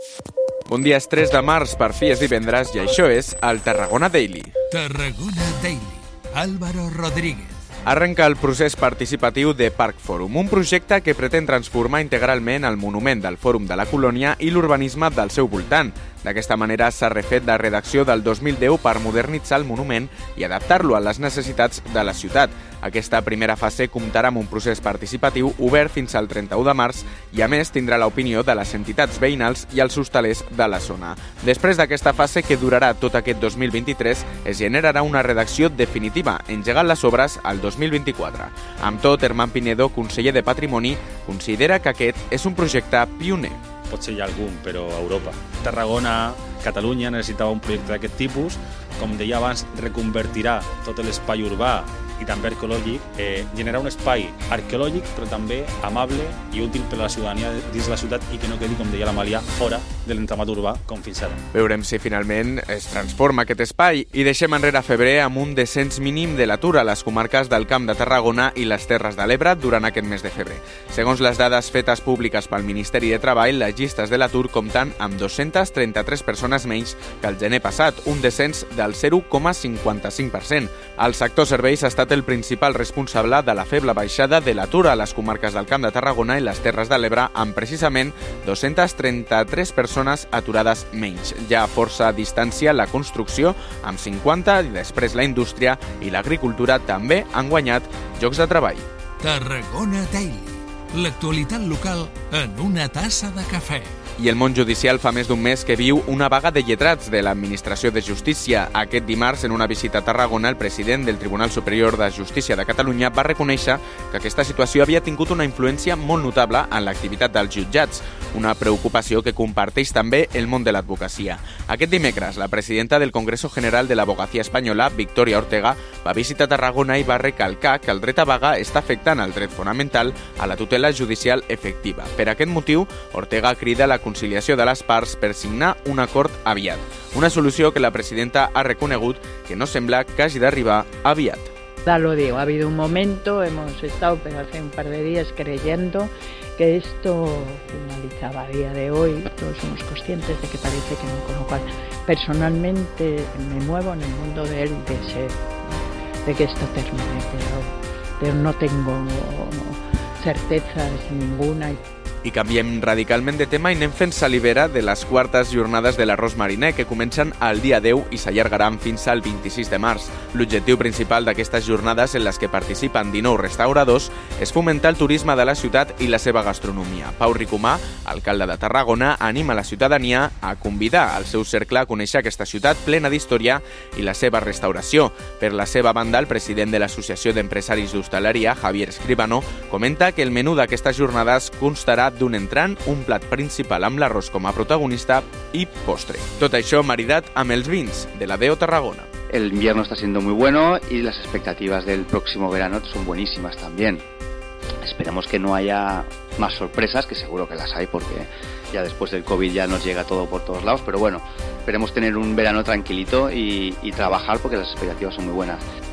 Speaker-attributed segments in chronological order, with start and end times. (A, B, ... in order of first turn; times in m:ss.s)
0:00.7-0:04.5 A
0:04.7-0:07.6 B
0:07.8-0:43.6 A
0:43.9-1:01.4 C
1:01.5-1:38.9 A
1:39.2-1:43.9 B
1:44.2-2:21.5 A
2:21.8-2:41.8 D
2:42.2-3:19.1 A
3:19.3-3:24.0 E
3:24.8-3:35.6 E